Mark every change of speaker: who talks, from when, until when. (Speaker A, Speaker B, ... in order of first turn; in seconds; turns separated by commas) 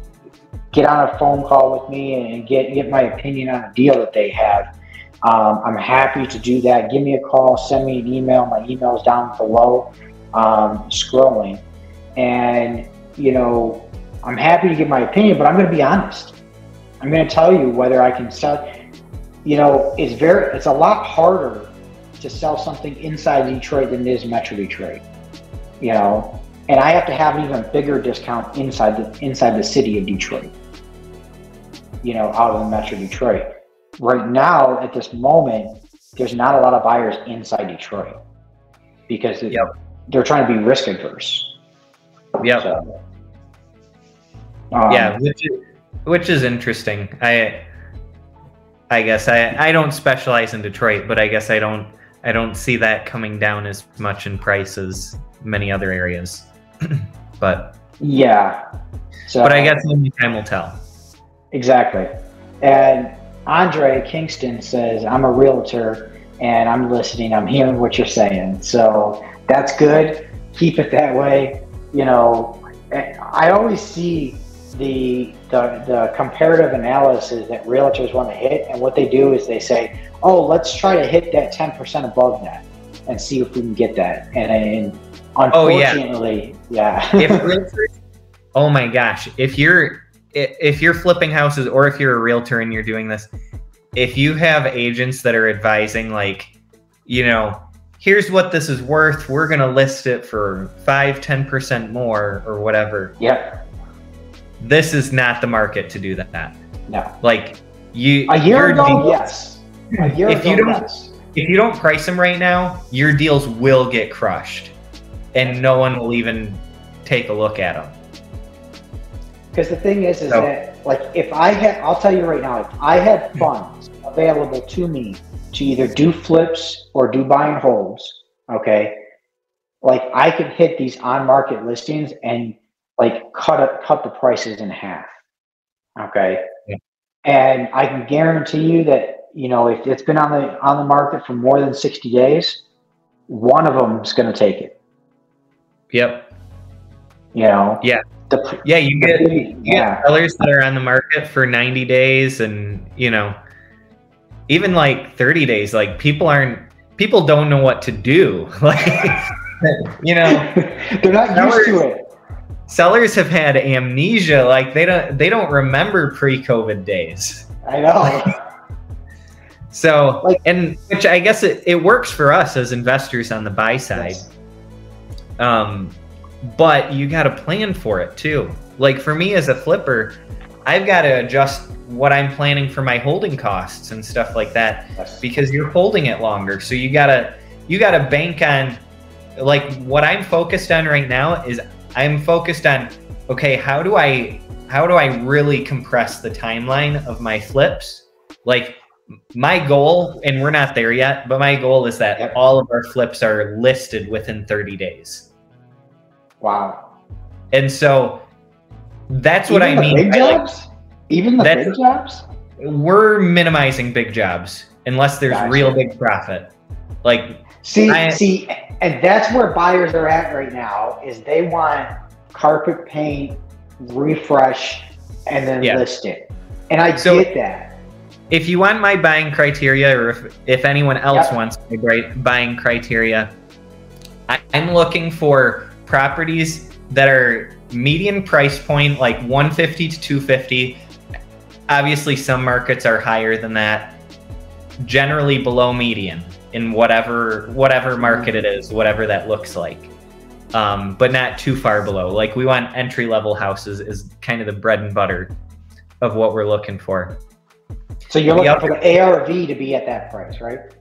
Speaker A: 0.7-4.7, Speaker A: 5.2-11.6, Speaker A: 12.2-16.4, Speaker A: 17.0-18.6, Speaker A: 19.4-25.0, Speaker A: 25.8-30.5, Speaker A: 32.0-33.5, Speaker A: 34.0-38.1, Speaker A: 39.1-41.5, Speaker B: 42.4-42.7, Speaker A: 42.6-42.9, Speaker A: 44.7-45.2, Speaker B: 44.9-47.6, Speaker B: 48.9-57.8, Speaker A: 58.0-58.6, Speaker A: 59.3-59.8, Speaker B: 59.4-60.8, Speaker A: 61.5-87.4, Speaker B: 85.5-86.0, Speaker B: 87.2-88.0, Speaker B: 88.5-93.3, Speaker B: 93.9-96.5, Speaker B: 97.0-103.2, Speaker A: 103.2-103.6, Speaker B: 104.6-106.6, Speaker A: 106.9-107.1, Speaker B: 107.2-109.2, Speaker A: 108.3-111.1, Speaker B: 110.0-114.7, Speaker B: 115.3-117.9, Speaker A: 119.5-129.0, Speaker A: 129.8-135.1, Speaker A: 135.9-136.4, Speaker A: 137.2-142.6, Speaker A: 143.3-144.8, Speaker B: 145.9-146.3, Speaker A: 147.3-150.0, Speaker B: 148.6-153.4, Speaker B: 154.5-160.5, Speaker A: 160.2-162.0, Speaker B: 161.3-161.8, Speaker B: 162.7-167.5, Speaker A: 167.6-168.4, Speaker B: 169.7-174.2, Speaker A: 173.9-174.3, Speaker B: 175.4-188.8, Speaker A: 185.0-185.2, Speaker B: 189.4-198.8, Speaker B: 199.3-205.3, Speaker A: 206.4-206.9, Speaker B: 207.5-208.2, Speaker B: 209.1-210.4, Speaker A: 209.5-212.2, Speaker B: 211.4-211.7, Speaker B: 212.6-216.5, Speaker A: 215.3-215.8, Speaker B: 217.0-218.2, Speaker A: 217.6-227.8, Speaker B: 225.6-225.8, Speaker B: 226.9-227.3, Speaker B: 228.3-233.3, Speaker B: 234.3-240.8, Speaker B: 241.7-244.0, Speaker B: 244.8-249.9, Speaker A: 248.0-248.3, Speaker B: 250.5-255.3, Speaker B: 256.0-257.2, Speaker A: 258.1-260.6, Speaker B: 258.3-258.8